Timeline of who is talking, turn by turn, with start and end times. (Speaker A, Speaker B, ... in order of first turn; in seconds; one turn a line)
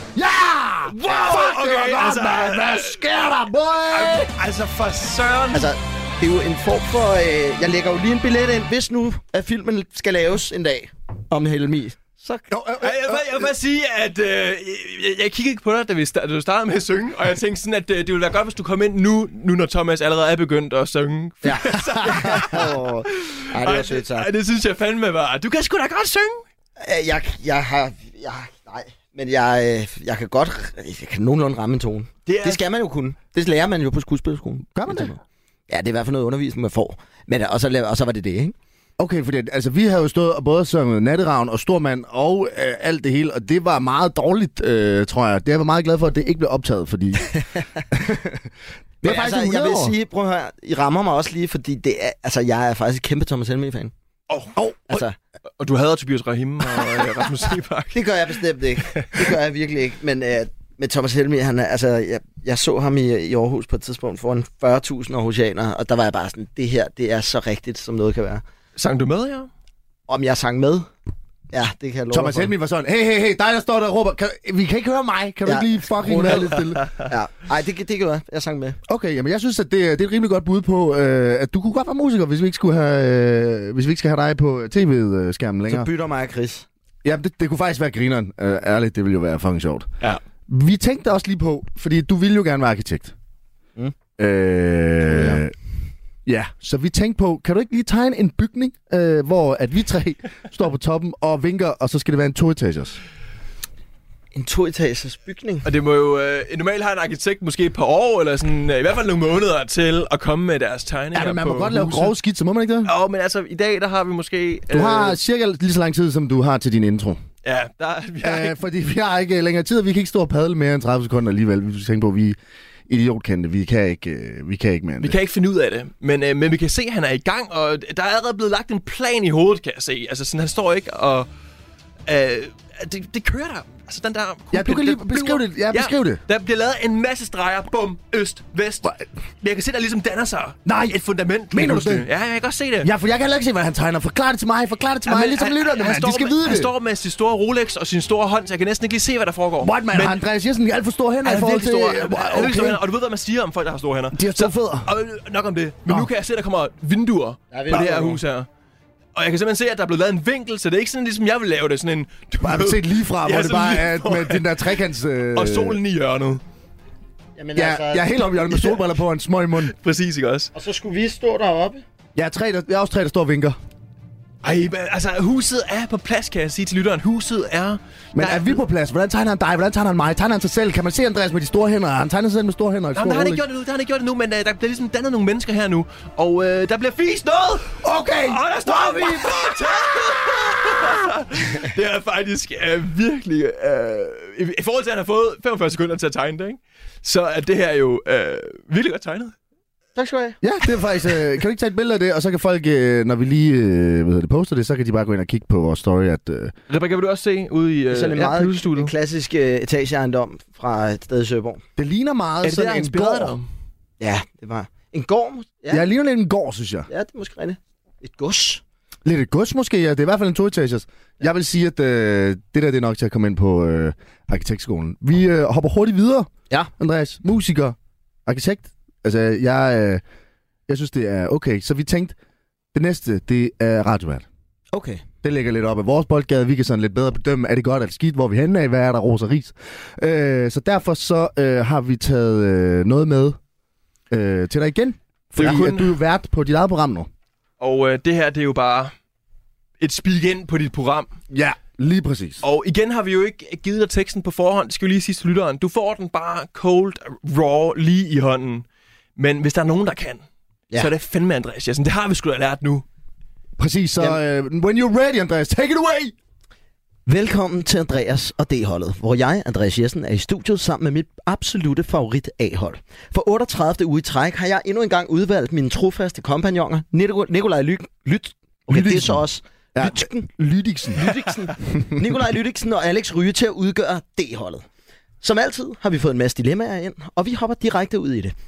Speaker A: 0.1-4.3
Speaker B: 0.8-3.0
Speaker B: 3.9-5.7
Speaker C: 5.5-12.5
Speaker A: 12.5-13.5
Speaker B: 12.8-26.4
Speaker C: 21.4-24.3
Speaker C: 26.8-35.2
Speaker B: 32.2-32.6
Speaker A: 34.7-35.1
Speaker C: 35.7-38.5
Speaker A: 39.0-47.3
Speaker C: 47.3-47.8
Speaker A: 47.9-48.5
Speaker A: 49.0-49.9
Speaker C: 49.0-53.9
Speaker B: 54.3-54.5
Speaker A: 54.5-54.9
Speaker C: 54.9-55.1
Speaker B: 55.6-59.3
Speaker C: 57.9-68.4
Speaker B: 68.8-69.5
Speaker C: 70.1-70.9
Speaker C: 71.5-72.5
Speaker A: 72.1-76.8
Speaker C: 75.4-78.8
Speaker A: 78.9-85.9
Speaker C: 85.7-86.7
Speaker A: 87.0-89.9
Speaker A: 90.5-93.1
Speaker A: 94.2-95.5
Speaker C: 95.0-95.4
Speaker A: 96.2-103.0
Speaker C: 104.3-105.7
Speaker B: 105.6-112.1
Speaker A: 111.1-112.9
Speaker B: 112.8-115.2
Speaker A: 114.7-117.2
Speaker B: 117.4-118.6
Speaker A: 118.2-122.4
Speaker A: 122.9-125.2
Speaker B: 125.0-131.3
Speaker B: 132.1-142.9
Speaker A: 134.5-136.2
Speaker A: 140.7-141.0
Speaker A: 141.5-142.1
Speaker A: 142.8-146.7
Speaker B: 145.1-150.2
Speaker A: 149.6-152.8
Speaker B: 151.2-158.5
Speaker A: 154.1-154.9
Speaker C: 157.5-158.2
Speaker B: 159.1-164.7
Speaker A: 162.4-165.8
Speaker B: 165.3-166.4
Speaker C: 167.4-168.5
Speaker A: 167.6-169.7
Speaker B: 169.6-170.5
Speaker C: 170.5-171.8
Speaker A: 172.2-173.6
Speaker B: 174.4-178.6
Speaker A: 178.1-183.4
Speaker B: 182.9-199.3
Speaker A: 187.8-189.9
Speaker A: 190.6-190.9
Speaker C: 199.9-200.4
Speaker A: 200.4-206.5
Speaker B: 206.7-208.9
Speaker C: 207.9-211.6
Speaker A: 211.8-213.4
Speaker B: 212.4-213.5
Speaker C: 214.0-215.8
Speaker A: 215.7-216.9
Speaker C: 216.9-218.6
Speaker A: 219.0-227.7
Speaker A: 228.2-230.0
Speaker A: 230.7-232.1
Speaker A: 232.7-234.2
Speaker C: 234.7-235.0
Speaker A: 235.2-243.4
Speaker A: 244.1-247.1
Speaker B: 245.3-245.9
Speaker B: 247.6-248.9
Speaker B: 249.8-251.1
Speaker A: 251.3-252.4
Speaker B: 252.4-258.6
Speaker B: 259.2-260.2
Speaker B: 260.8-262.8
Speaker A: 263.6-266.1
Speaker C: 267.1-280.3
Speaker A: 278.7-279.2
Speaker A: 279.7-281.0
Speaker C: 280.9-284.6
Speaker A: 281.7-282.0
Speaker C: 285.2-288.3